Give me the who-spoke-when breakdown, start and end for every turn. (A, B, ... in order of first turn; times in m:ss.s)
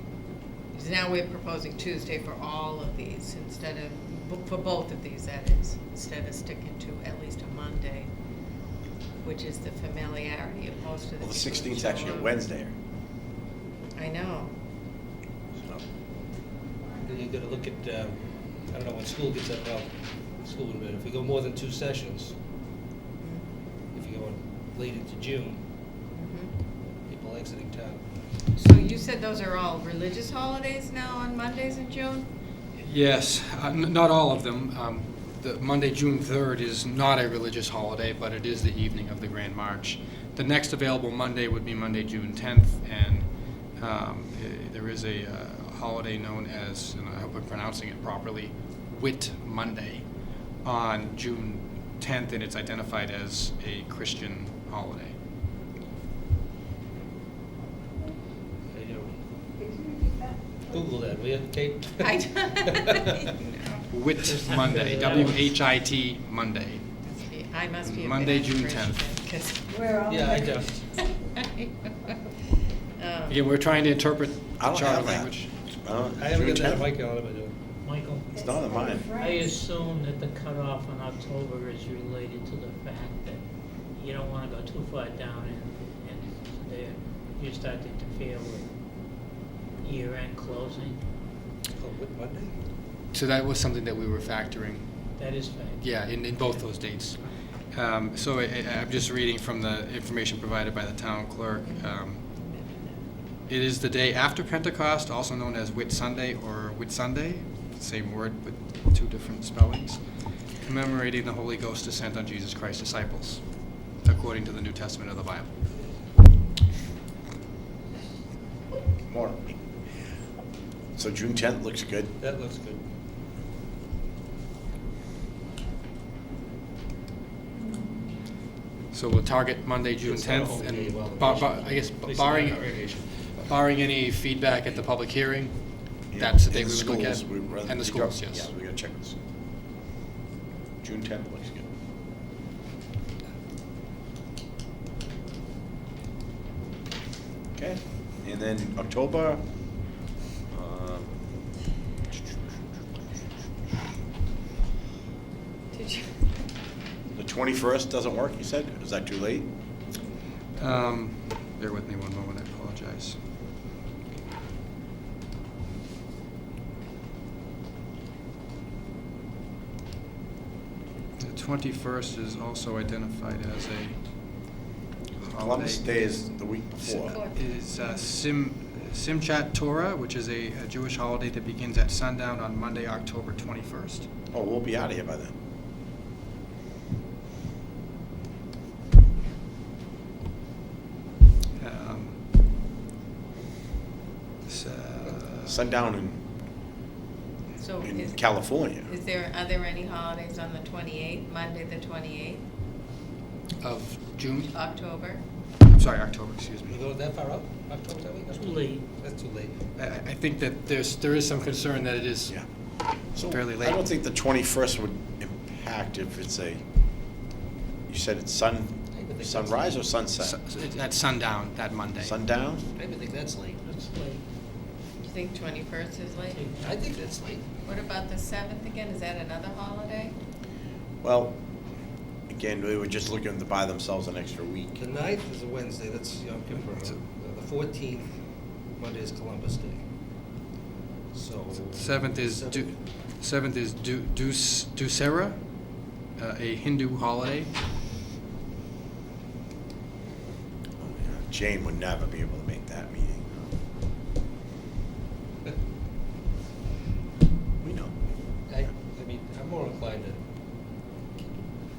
0:00.7-0:08.1 A
0:09.2-0:12.3 A
0:11.2-0:12.7 B
0:13.9-0:14.5 A
0:15.6-0:15.8 B
0:17.0-0:22.3 C
0:23.2-0:23.4 A
0:23.9-0:25.6 C
0:26.1-0:26.5 A
0:27.0-0:28.0 C
0:28.5-0:32.3 A
0:32.8-0:50.0 D
0:50.6-0:55.2 D
0:58.7-0:59.1 C
1:00.7-1:02.1 C
1:02.0-1:03.8 A
1:03.9-1:06.8 D
1:04.3-1:05.3 E
1:07.0-1:09.8 A
1:07.8-1:09.0 D
1:10.1-1:10.8 C
1:10.9-1:12.2 A
1:13.0-1:13.4 A
1:13.3-1:15.5 D
1:14.6-1:16.8 B
1:16.2-1:17.5 C
1:17.8-1:18.3 E
1:18.3-1:19.1 B
1:19.2-1:23.4 E
1:24.0-1:28.7 E
1:29.8-1:31.0 E
1:31.8-1:32.5 C
1:33.1-1:34.9 D
1:35.2-1:35.7 E
1:35.8-1:37.2 D
1:37.7-1:42.2 D
1:41.6-1:43.0 A
1:43.5-1:50.0 D
1:50.6-1:53.4 D
1:54.0-1:55.5 D
1:59.1-1:59.6 B
2:01.0-2:02.1 B
2:02.2-2:02.8 C
2:08.9-2:18.5 D
2:10.0-2:13.3 C
2:16.1-2:19.2 B
2:20.8-2:21.7 B
2:27.6-2:29.4 B
2:30.5-2:31.1 B
2:35.7-2:36.3 A
2:37.1-2:39.5 B
2:40.6-2:43.2 D
2:51.2-2:54.0 D
2:55.2-2:56.0 D
2:55.2-2:57.2 B
2:56.8-3:04.1 D
2:57.0-2:57.9 A
3:04.3-3:05.3 B
3:11.6-3:12.2 D
3:14.4-3:15.6 D
3:15.4-3:16.2 B
3:17.6-3:22.4 A
3:17.8-3:18.9 B
3:23.6-3:24.5 D
3:24.5-3:25.2 A
3:25.7-3:26.8 D
3:26.7-3:29.6 C
3:28.5-3:28.8 E
3:29.7-3:32.4 D
3:33.1-3:36.6 B
3:33.2-3:33.8 D
3:37.9-3:40.4 B
3:38.9-3:39.8 C
3:40.2-3:42.2 D
3:42.0-3:42.6 B
3:42.7-3:43.6 C
3:43.6-3:44.2 E
3:45.0-3:46.4 A
3:46.5-3:47.4 C
3:47.6-3:50.1 A
3:51.0-3:51.4 B
3:52.3-3:54.8 B
3:54.8-3:58.1 C
3:58.7-3:59.8 C
4:01.1-4:02.8 C
4:01.7-4:05.4 D
4:06.2-4:07.5 D
4:10.8-4:13.5 B
4:17.6-4:17.9 B
4:18.5-4:20.2 C